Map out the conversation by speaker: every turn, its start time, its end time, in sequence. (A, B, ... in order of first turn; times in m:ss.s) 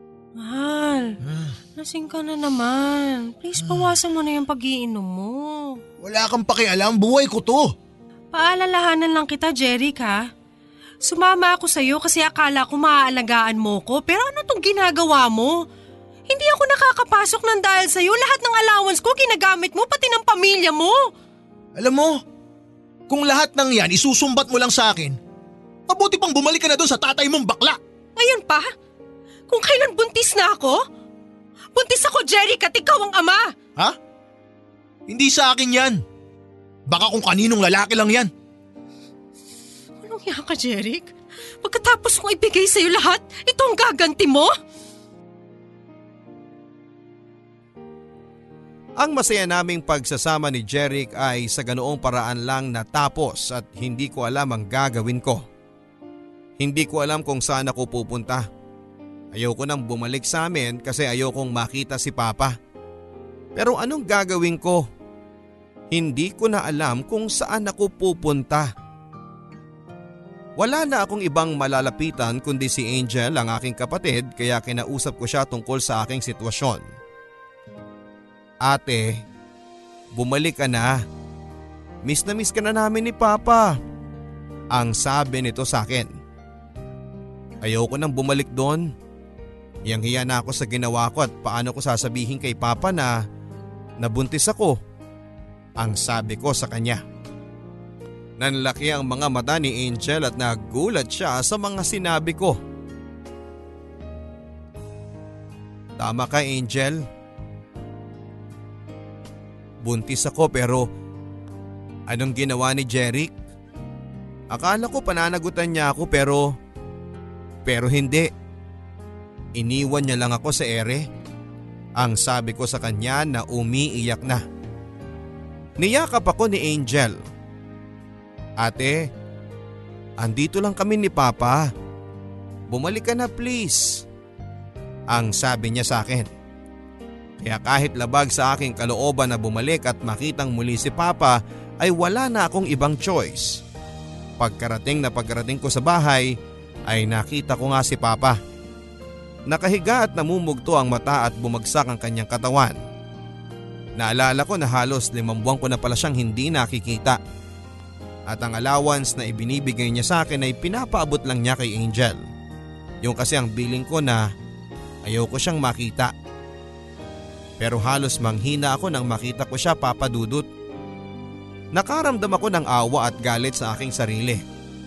0:00.4-0:01.2 A
0:01.3-0:01.5 B
0:01.8-0:05.8 A
0:06.0-0:07.7 B
0:08.3-0:10.2 A
0:11.0-0:15.5 A
0:16.3-0:21.0 A
0:21.8-0:22.2 B
0:23.1-0:25.2 B
0:25.9-0:27.8 B
0:28.2-0:28.7 A
0:29.5-0:30.8 A
0:31.8-0:33.5 A
0:35.1-0:36.0 B
0:36.9-0:38.3 B
0:40.0-0:44.5 A
0:49.0-0:55.4 C
0:56.6-0:58.5 C
0:59.3-1:02.6 C
1:03.6-1:04.8 C
1:05.9-1:08.7 C
1:10.6-1:16.8 C
1:18.6-1:19.2 C
1:20.1-1:21.0 C
1:22.0-1:23.8 C
1:24.7-1:26.1 C
1:27.6-1:28.9 C
1:29.9-1:33.2 C
1:34.0-1:34.8 C
1:35.8-1:37.0 C
1:38.4-1:42.6 C
1:46.0-1:47.0 C
1:49.8-1:50.9 C
1:52.1-1:53.3 C
1:54.5-1:56.5 C
1:57.7-1:58.3 C
1:59.6-2:01.1 C
2:02.0-2:04.4 C
2:05.8-2:07.2 C
2:08.6-2:09.1 C
2:10.2-2:11.7 C
2:12.7-2:14.1 C
2:15.1-2:16.3 C
2:17.4-2:23.6 C
2:24.4-2:26.4 C
2:26.9-2:28.4 C
2:29.5-2:32.8 C
2:34.0-2:37.2 C
2:38.3-2:42.2 C
2:43.0-2:44.3 C
2:45.1-2:46.1 C
2:47.6-2:50.5 C
2:51.7-2:54.4 C